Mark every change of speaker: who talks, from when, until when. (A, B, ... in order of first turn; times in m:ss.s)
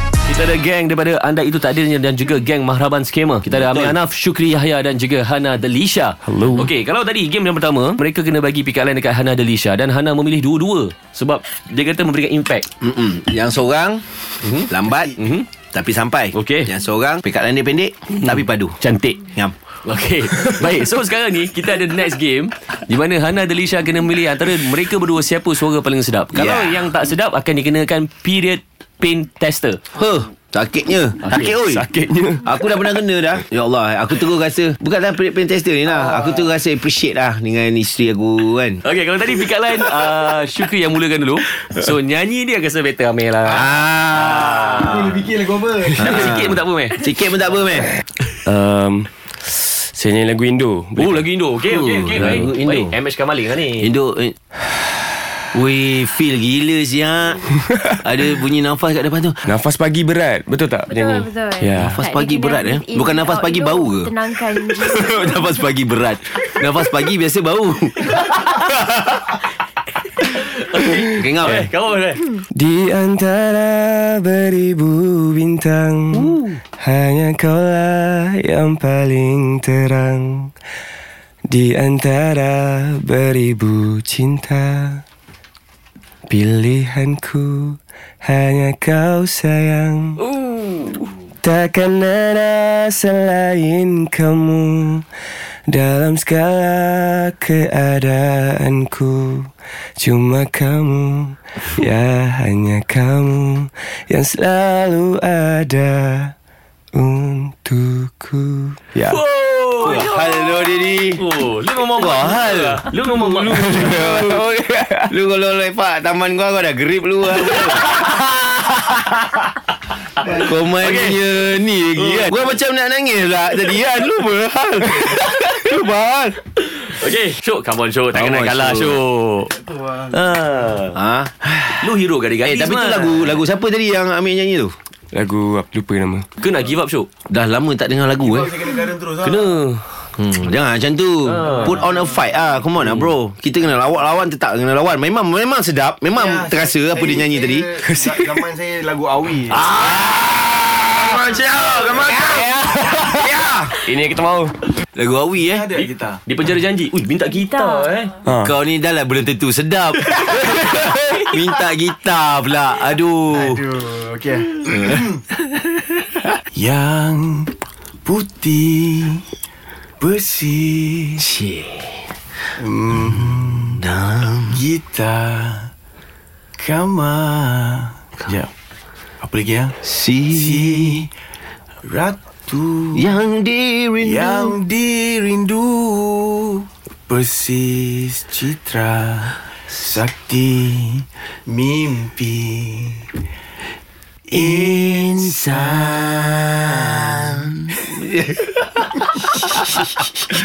0:00.2-0:12.7 A
0:03.5-0:04.0 B
0:06.3-0:06.7 C
0:12.8-0:18.8 B
0:14.4-0:15.5 A
0:16.3-0:16.7 A
0:18.2-0:19.3 A
0:19.8-0:29.8 A
0:26.3-0:26.9 B
0:29.9-0:31.8 B
0:31.2-0:31.6 A
0:31.7-0:32.4 C
0:32.4-0:38.8 B
0:36.1-0:36.4 D
0:38.8-0:45.0 A
0:43.5-0:45.1 B
0:44.6-0:46.2 D
0:45.9-0:47.0 A
0:46.0-0:47.9 B
0:48.4-0:51.2 C
0:51.0-0:53.9 A
0:51.6-0:53.0 B
0:53.8-0:54.4 B
0:55.5-0:59.4 B
0:59.4-1:01.3 C
1:00.9-1:05.5 E
1:01.6-1:02.0 A
1:01.7-1:04.1 B
1:04.7-1:08.6 B
1:10.2-1:12.3 A
1:11.2-1:11.7 B
1:12.6-1:20.5 C
1:16.1-1:16.6 A
1:21.5-1:25.0 C
1:26.3-1:30.2 C
1:31.4-1:35.1 C
1:35.7-1:46.3 C
1:46.9-1:49.2 C
1:49.0-1:50.1 A
1:49.8-1:51.2 B
1:51.2-1:54.2 A
1:52.0-1:52.9 B
1:53.5-1:54.5 B
1:53.7-1:55.1 C
1:55.1-1:59.4 B
2:00.2-2:06.4 B
2:00.3-2:01.2 A
2:02.0-2:02.4 A
2:06.6-2:11.0 A
2:08.1-2:09.0 B
2:09.7-2:10.1 D
2:10.9-2:11.9 B
2:11.8-2:13.4 A
2:12.4-2:14.8 B
2:15.1-2:16.3 C
2:16.4-2:17.1 A
2:17.3-2:18.7 B
2:18.2-2:19.5 D
2:19.3-2:19.8 A
2:20.2-2:27.7 B
2:21.3-2:21.8 A
2:21.6-2:22.1 D
2:26.1-2:30.2 D
2:27.8-2:28.5 C
2:29.5-2:32.6 B
2:30.9-2:32.2 D
2:32.1-2:34.5 C
2:33.2-2:33.7 B
2:35.0-2:35.7 B
2:35.4-2:36.2 D
2:35.7-2:38.2 A
2:37.5-2:37.9 E
2:38.3-2:38.5 C
2:38.3-2:43.7 B
2:43.3-2:45.1 D
2:46.5-2:47.5 D
2:48.0-2:49.2 D
2:50.0-2:51.3 D
2:52.6-2:53.8 D
2:53.8-2:54.6 B
2:54.5-2:55.7 D
2:56.6-2:58.5 D
2:59.2-2:59.8 D
2:59.8-3:01.1 B
3:00.3-3:01.1 D
3:01.8-3:03.2 D
3:03.0-3:04.6 B
3:04.0-3:13.0 D
3:14.3-3:16.5 D
3:14.3-3:18.4 B
3:19.3-3:20.0 B